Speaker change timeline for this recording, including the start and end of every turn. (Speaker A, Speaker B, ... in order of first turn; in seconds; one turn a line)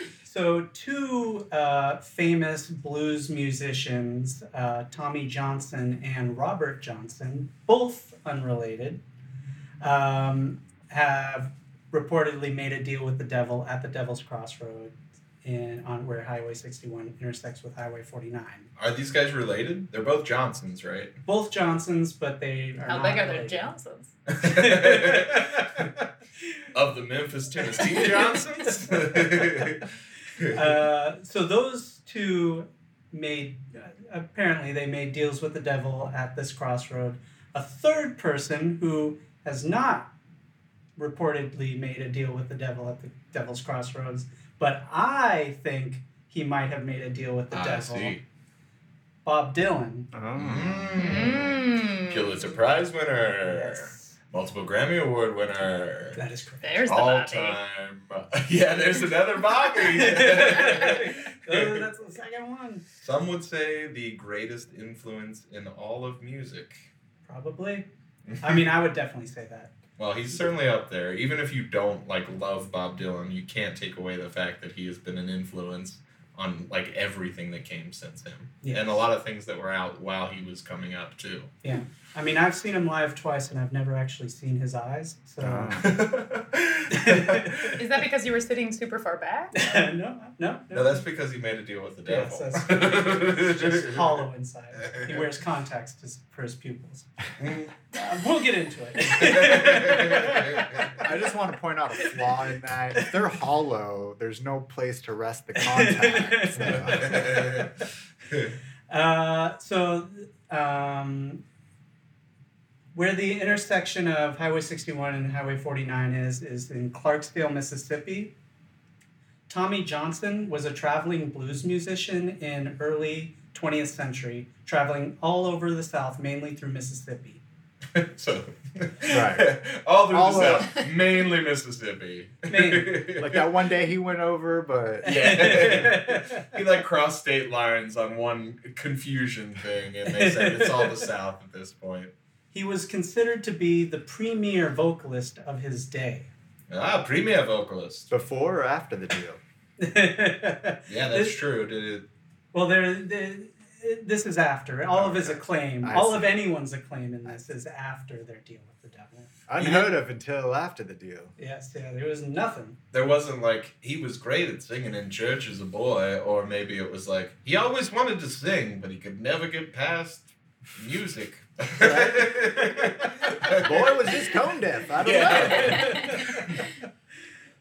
Speaker A: 0.2-9.0
Speaker A: 9.8-18.7
Speaker B: 18.8-21.1
Speaker A: 21.2-23.7
Speaker C: 22.8-24.1
Speaker B: 24.3-25.8
Speaker A: 24.4-26.0
Speaker B: 26.7-29.8
Speaker A: 28.8-29.8
Speaker B: 30.4-30.6
Speaker A: 30.5-40.1
Speaker A: 41.0-48.2
Speaker B: 47.5-48.2
Speaker A: 49.2-50.1
Speaker D: 50.1-51.2
Speaker B: 50.3-56.2
Speaker C: 50.9-52.5
Speaker A: 53.4-54.2
Speaker A: 56.1-56.8
Speaker C: 56.6-57.6
Speaker B: 56.8-61.8
Speaker A: 59.9-62.8
Speaker B: 63.0-66.9
Speaker A: 67.3-67.9
Speaker B: 68.2-68.7
Speaker A: 68.4-69.7
Speaker B: 70.0-81.5
Speaker A: 78.6-79.0
Speaker A: 81.6-85.8
Speaker D: 85.4-86.0
Speaker B: 85.8-87.8
Speaker A: 86.9-87.8
Speaker C: 87.8-89.7
Speaker A: 89.5-91.0
Speaker B: 90.7-94.1
Speaker A: 92.0-97.1
Speaker B: 94.8-95.2
Speaker B: 97.4-97.7
Speaker A: 97.9-101.0
Speaker B: 99.1-100.9
Speaker D: 100.8-107.6
Speaker A: 105.5-107.4
Speaker B: 106.6-107.7
Speaker B: 108.3-108.5
Speaker A: 108.9-111.4
Speaker A: 112.9-118.3
Speaker A: 119.5-127.4
Speaker B: 127.9-133.5
Speaker D: 129.1-129.6
Speaker D: 130.1-130.8
Speaker A: 132.5-133.0
Speaker D: 133.2-135.8
Speaker A: 135.0-136.5
Speaker B: 135.0-142.1
Speaker A: 140.1-141.0
Speaker A: 142.5-146.3
Speaker B: 146.7-148.1
Speaker D: 148.1-149.4
Speaker A: 149.8-151.4
Speaker B: 150.9-152.1
Speaker A: 152.5-159.3
Speaker B: 155.0-155.4
Speaker D: 155.8-156.3
Speaker D: 159.5-161.3
Speaker B: 159.6-159.9
Speaker A: 161.4-162.8
Speaker B: 162.9-174.2
Speaker D: 171.8-172.7
Speaker D: 173.5-176.2
Speaker B: 175.0-176.7
Speaker A: 175.4-176.4
Speaker C: 175.8-176.1